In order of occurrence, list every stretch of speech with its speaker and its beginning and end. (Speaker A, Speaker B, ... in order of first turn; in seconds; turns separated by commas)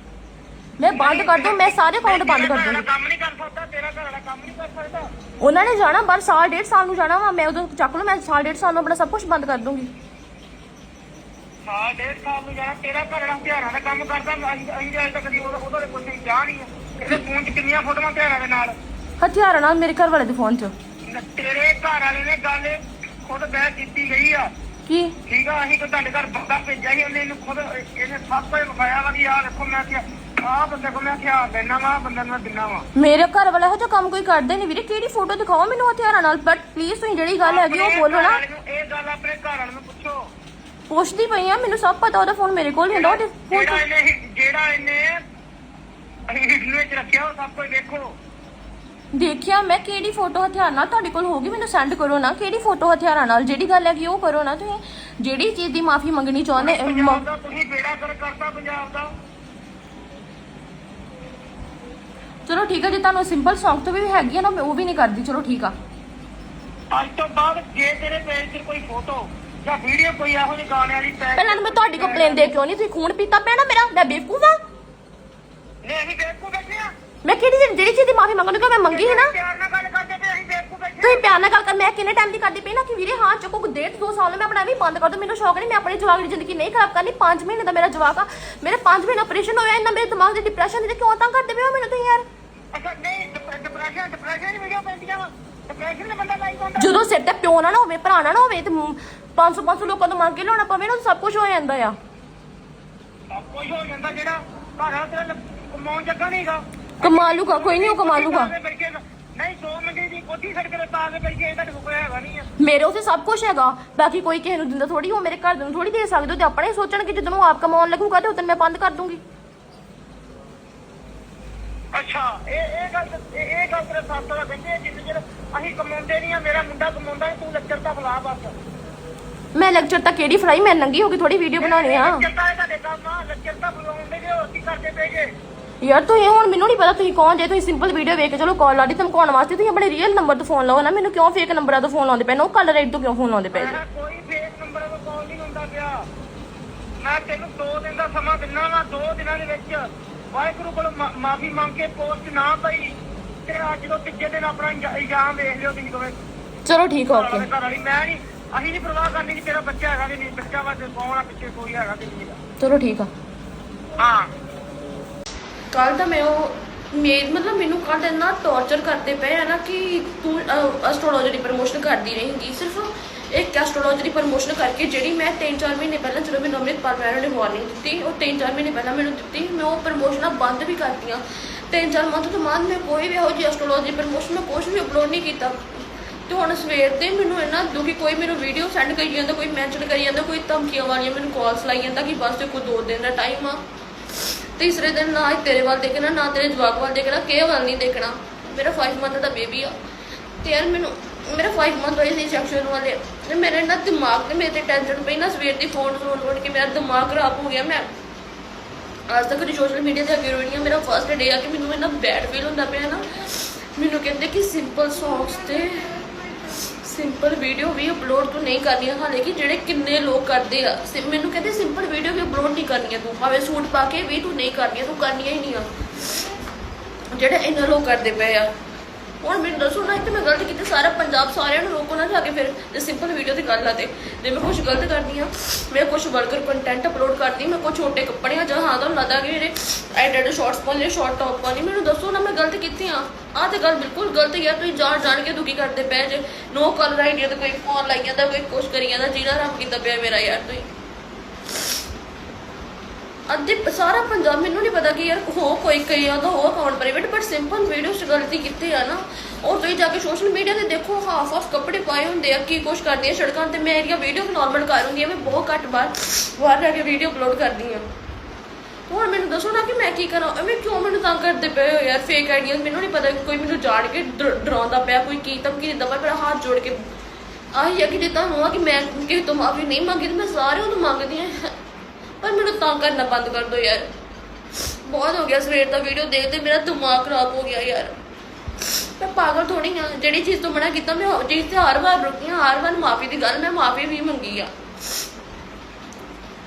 Speaker A: 0.8-2.8, Speaker B: 0.9-5.1, Speaker A: 5.4-9.9, Speaker B: 11.7-18.7, Speaker A: 19.2-20.7, Speaker B: 21.1-24.5, Speaker A: 24.9-25.1, Speaker B: 25.3-32.9, Speaker A: 33.0-38.4, Speaker B: 37.4-40.2, Speaker A: 40.9-43.8, Speaker B: 42.9-45.2, Speaker B: 46.3-48.2, Speaker A: 49.1-57.2, Speaker B: 56.6-59.1, Speaker A: 62.5-65.7, Speaker B: 66.9-72.5, Speaker A: 71.4-74.6, Speaker B: 75.8-76.9, Speaker A: 77.2-79.3, Speaker B: 78.9-81.3, Speaker A: 81.0-92.2, Speaker B: 92.7-97.0, Speaker A: 96.8-102.0, Speaker B: 103.3-112.5, Speaker A: 107.0-108.5, Speaker A: 112.6-119.2, Speaker B: 121.9-128.6, Speaker A: 129.6-132.2, Speaker B: 131.6-135.3, Speaker A: 135.8-143.8, Speaker B: 143.5-146.0, Speaker B: 147.0-156.2, Speaker A: 156.7-157.5, Speaker B: 157.1-162.4, Speaker A: 162.6-163.1, Speaker B: 164.0-164.3, Speaker A: 165.7-185.6, Speaker A: 186.3-193.6, Speaker A: 194.6-199.7, Speaker A: 200.4-207.9, Speaker A: 209.1-225.8, Speaker A: 227.1-228.5, Speaker A: 229.2-250.7, Speaker A: 253.3-267.9, Speaker A: 268.9-276.8, Speaker A: 277.5-281.5, Speaker A: 282.2-283.9, Speaker A: 284.7-288.0, Speaker A: 288.7-294.5